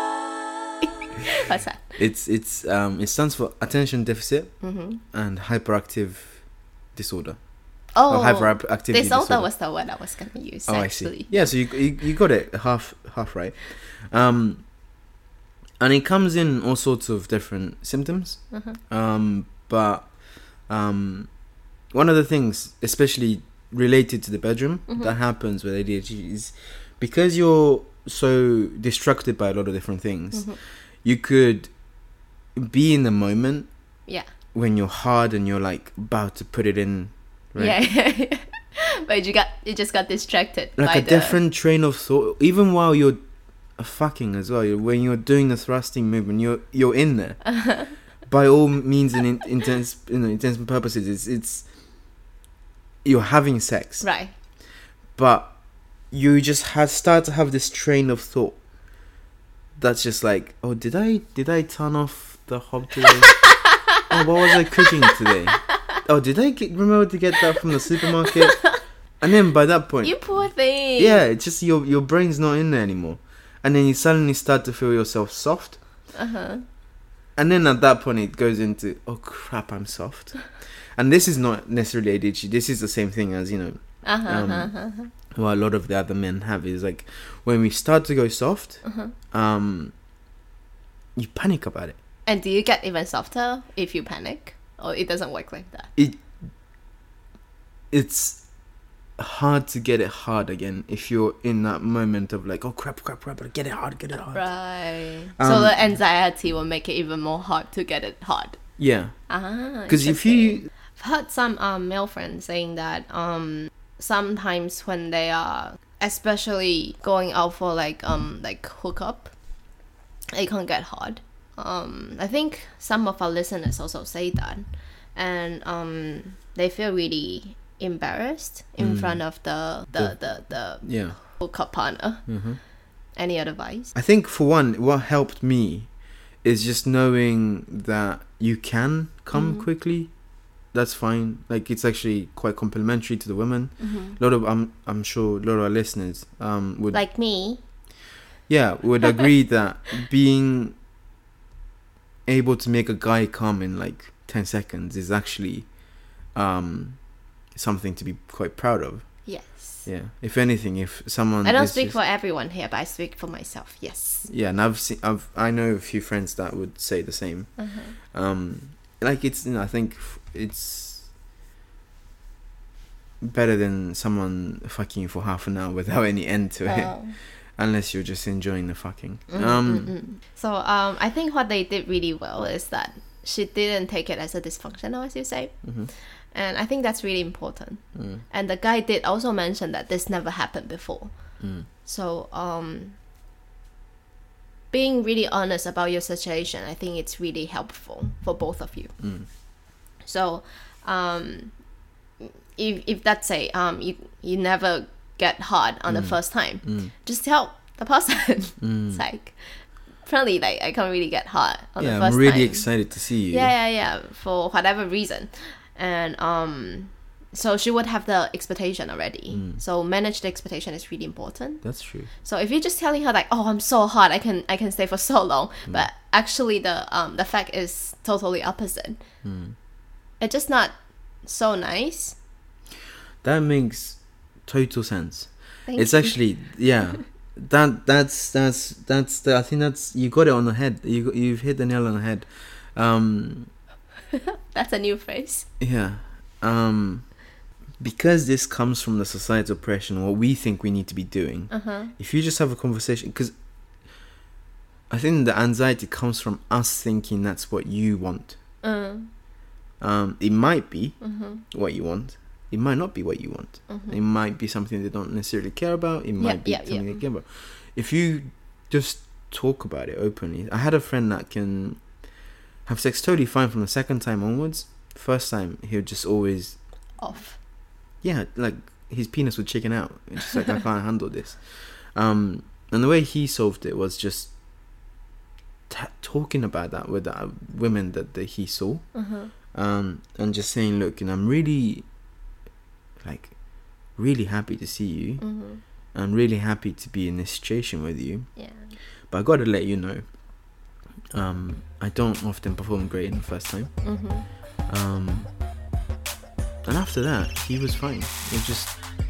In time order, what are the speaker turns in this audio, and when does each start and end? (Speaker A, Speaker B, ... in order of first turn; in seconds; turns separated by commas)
Speaker A: 0.8-2.0, Speaker B: 2.0-6.4, Speaker A: 4.6-5.0, Speaker B: 6.9-7.4, Speaker B: 7.9-9.5, Speaker A: 7.9-11.7, Speaker B: 10.7-14.7, Speaker B: 15.8-20.1, Speaker A: 18.5-18.8, Speaker B: 20.7-21.3, Speaker B: 21.9-31.7, Speaker A: 24.9-25.1, Speaker A: 30.3-30.6, Speaker B: 32.6-33.7, Speaker B: 34.5-37.8, Speaker A: 37.6-41.4, Speaker B: 40.8-43.2, Speaker B: 43.8-47.6, Speaker B: 48.3-51.7, Speaker B: 53.0-54.1, Speaker A: 54.0-54.3, Speaker B: 55.2-55.5, Speaker B: 56.1-58.6, Speaker B: 59.8-63.5, Speaker B: 64.1-70.4, Speaker A: 68.3-68.8, Speaker A: 70.0-71.2, Speaker B: 71.0-75.8, Speaker A: 76.1-76.7, Speaker B: 77.4-84.7, Speaker A: 84.0-85.1, Speaker B: 85.3-89.9, Speaker A: 88.8-89.1, Speaker B: 91.2-92.0, Speaker A: 92.3-95.9, Speaker B: 97.9-98.4, Speaker B: 99.2-104.6, Speaker A: 104.3-108.6, Speaker B: 105.4-105.8, Speaker B: 108.8-109.3, Speaker A: 109.3-119.3, Speaker B: 109.8-110.7, Speaker A: 120.3-132.5, Speaker B: 128.8-130.2, Speaker B: 130.7-131.2, Speaker B: 132.3-132.6, Speaker A: 133.1-133.9, Speaker B: 133.9-140.1, Speaker A: 139.3-139.7, Speaker B: 140.7-147.0, Speaker A: 143.8-144.2, Speaker A: 146.9-147.6, Speaker B: 148.5-150.8, Speaker B: 152.3-155.8, Speaker B: 156.3-157.0, Speaker B: 157.6-162.0, Speaker A: 159.3-159.9, Speaker A: 161.4-164.3, Speaker B: 164.3-171.1, Speaker A: 167.6-167.9, Speaker B: 173.2-179.9, Speaker A: 176.7-177.2, Speaker A: 179.3-185.7, Speaker B: 185.6-185.9, Speaker A: 186.3-191.1, Speaker B: 187.9-188.2, Speaker B: 191.4-191.7, Speaker A: 191.8-193.0, Speaker A: 194.7-198.9, Speaker B: 199.0-199.3, Speaker A: 200.0-201.5, Speaker A: 202.2-221.6, Speaker B: 205.9-206.9, Speaker B: 208.6-209.0, Speaker B: 211.8-213.5, Speaker B: 219.3-219.6, Speaker B: 221.6-222.1, Speaker A: 222.2-229.0, Speaker B: 229.2-229.6, Speaker A: 230.2-232.2, Speaker B: 233.2-243.5, Speaker A: 235.7-236.2, Speaker A: 244.1-245.5, Speaker B: 245.6-247.1, Speaker B: 247.8-253.3, Speaker A: 251.5-251.9, Speaker B: 254.9-258.4, Speaker A: 258.6-259.1, Speaker B: 259.8-271.8, Speaker A: 261.0-261.4, Speaker A: 263.7-264.0, Speaker A: 266.2-267.0, Speaker B: 272.7-276.6, Speaker A: 277.0-277.4, Speaker B: 278.0-284.3, Speaker B: 285.7-289.0, Speaker A: 288.9-289.3, Speaker B: 289.5-291.9, Speaker B: 293.0-295.4, Speaker A: 295.2-295.6, Speaker B: 295.9-298.4, Speaker A: 298.4-298.7, Speaker B: 299.1-300.0, Speaker B: 301.1-303.7, Speaker A: 303.8-304.3, Speaker B: 304.7-305.3, Speaker B: 306.6-308.8